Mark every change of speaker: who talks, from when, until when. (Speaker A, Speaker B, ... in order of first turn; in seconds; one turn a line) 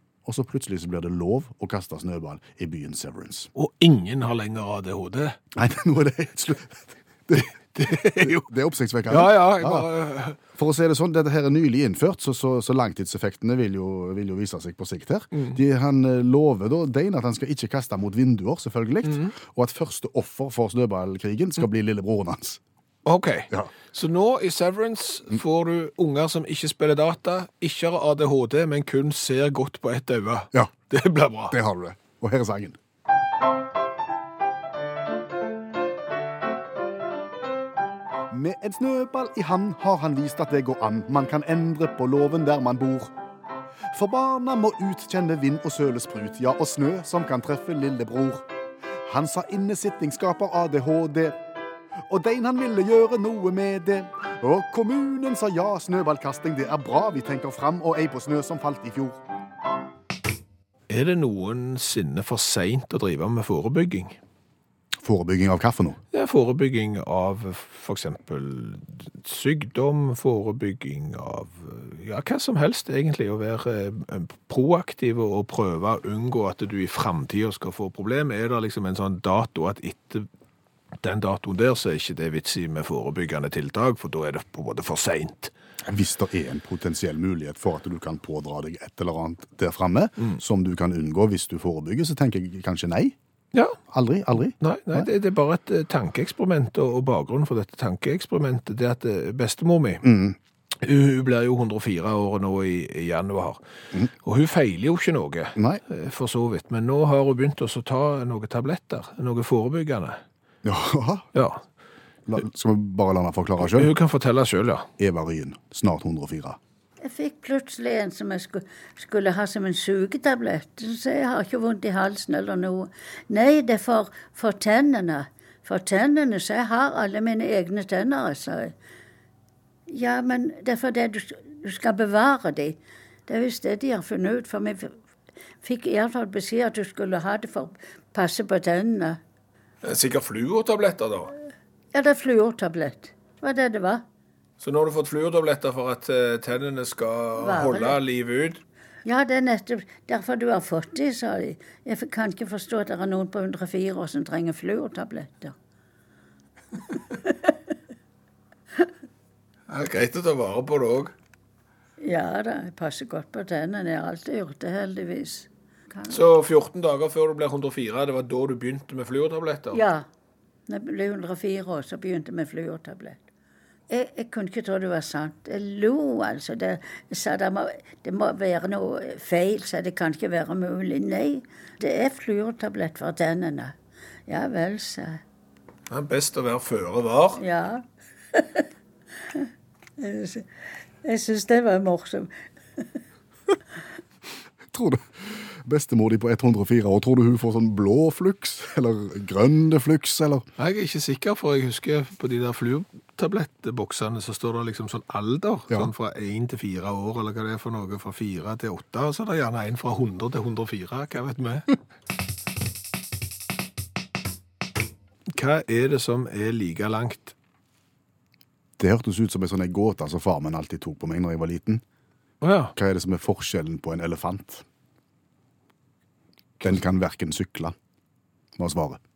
Speaker A: 0.2-3.5
Speaker B: 3.5-5.4
Speaker A: 5.5-9.9
Speaker B: 7.4-8.5
Speaker B: 9.1-10.4
Speaker A: 10.6-22.6
Speaker B: 19.1-19.4
Speaker B: 23.1-31.6
Speaker A: 31.5-32.8
Speaker A: 38.3-43.1
Speaker A: 43.9-48.5
Speaker A: 49.0-51.4
Speaker A: 52.1-59.2
Speaker B: 60.9-64.2
Speaker A: 65.0-66.0
Speaker B: 66.1-80.3
Speaker B: 81.0-85.5
Speaker A: 85.8-93.2
Speaker A: 93.9-95.1
Speaker B: 94.6-100.0
Speaker A: 100.0-100.4
Speaker B: 100.8-103.6
Speaker B: 104.2-110.2
Speaker A: 105.6-105.8
Speaker A: 110.6-111.3
Speaker B: 111.3-111.6
Speaker A: 112.3-113.9
Speaker B: 113.6-114.9
Speaker A: 115.0-116.6
Speaker C: 117.0-128.7
Speaker C: 129.9-134.9
Speaker C: 135.6-139.2
Speaker B: 139.8-141.3
Speaker C: 141.9-144.0
Speaker B: 144.6-148.6
Speaker C: 147.4-148.0
Speaker C: 149.1-155.6
Speaker C: 157.0-157.6
Speaker B: 159.7-161.1
Speaker C: 162.0-166.2
Speaker B: 166.1-169.8
Speaker C: 169.7-170.1
Speaker C: 170.7-173.2
Speaker C: 173.9-183.8
Speaker C: 184.3-185.2
Speaker B: 185.9-187.4
Speaker C: 187.4-188.7
Speaker C: 190.0-190.4
Speaker C: 191.0-192.8
Speaker A: 194.7-200.5
Speaker B: 200.6-211.8
Speaker B: 215.3-217.3
Speaker A: 218.8-221.8
Speaker B: 222.4-222.7
Speaker A: 222.8-224.7
Speaker A: 226.6-227.8
Speaker A: 228.6-229.0